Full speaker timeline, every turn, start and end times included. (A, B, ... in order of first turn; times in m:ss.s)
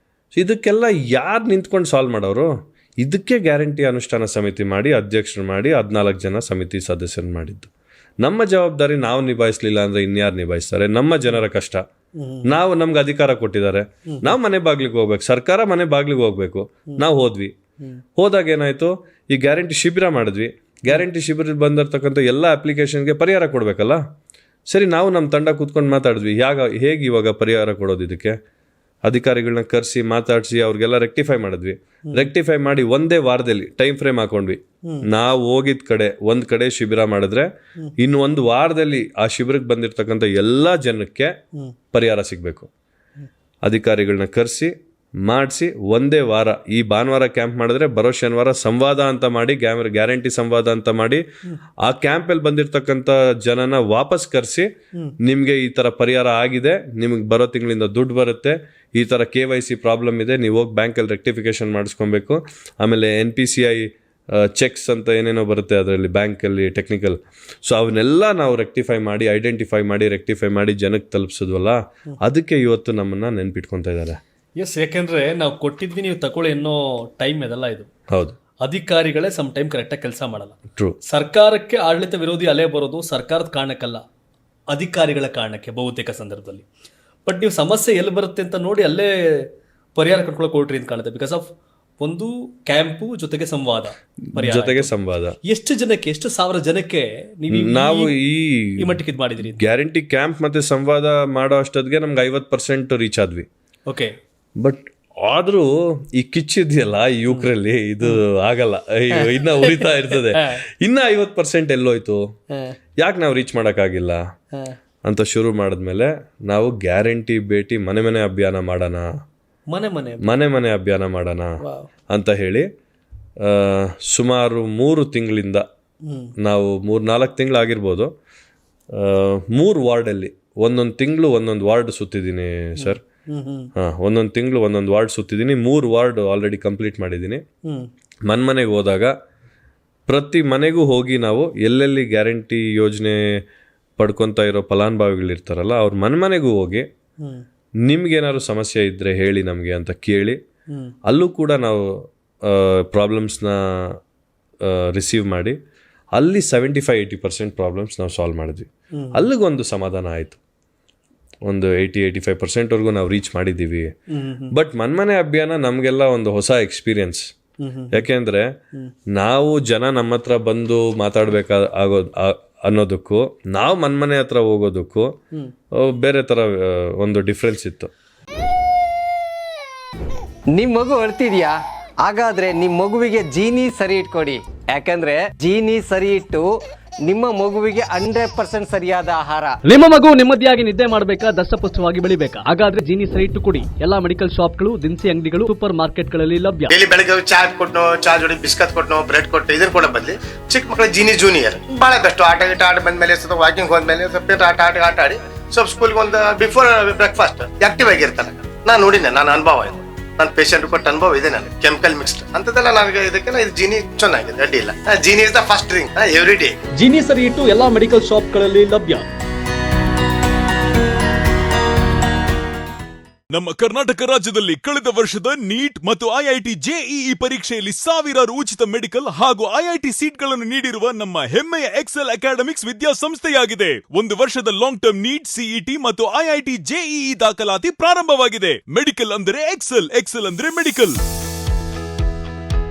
0:00.3-0:02.5 A
0:03.0-0:11.8 A
0:12.2-0:12.5 B
0:12.4-0:17.5 A
0:18.2-0:24.0 A
0:24.7-0:28.3 A
0:29.0-0:41.3 A
0:41.9-0:42.7 A
0:43.6-0:51.2 A
0:51.8-0:54.7 A
0:55.2-1:14.2 A
1:14.6-1:17.9 B
1:18.6-1:20.6 B
1:21.1-1:24.0 B
1:24.7-1:26.6 B
1:27.2-1:34.9 B
1:34.4-1:35.4 A
1:35.4-1:38.1 B
1:37.5-1:39.0 A
1:38.8-1:39.6 B
1:39.5-1:43.4 A
1:43.9-1:44.2 B
1:44.6-1:52.2 A
1:49.2-1:50.5 B
1:53.0-1:54.2 A
1:55.0-1:59.1 A
1:59.7-2:00.3 B
2:00.2-2:01.6 A
2:01.6-2:01.9 B
2:02.1-2:02.7 A
2:03.4-2:05.6 A
2:06.4-2:08.1 A
2:08.9-2:13.0 A
2:12.8-2:13.7 B
2:13.8-2:17.4 A
2:18.3-2:19.1 A
2:20.1-2:23.4 A
2:24.0-2:26.8 A
2:27.8-2:30.4 A
2:31.0-2:34.0 A
2:34.6-2:35.6 A
2:36.1-2:40.4 A
2:38.9-2:39.2 B
2:41.4-2:43.9 A
2:44.1-2:44.5 B
2:44.5-2:47.2 A
2:47.6-2:48.0 B
2:47.9-2:48.5 A
2:49.1-2:55.1 A
2:55.7-2:57.9 A
3:00.5-3:09.6 C
3:09.7-3:16.7 D
3:16.7-3:36.6 E
3:36.8-3:39.0 D
3:43.3-4:01.0 F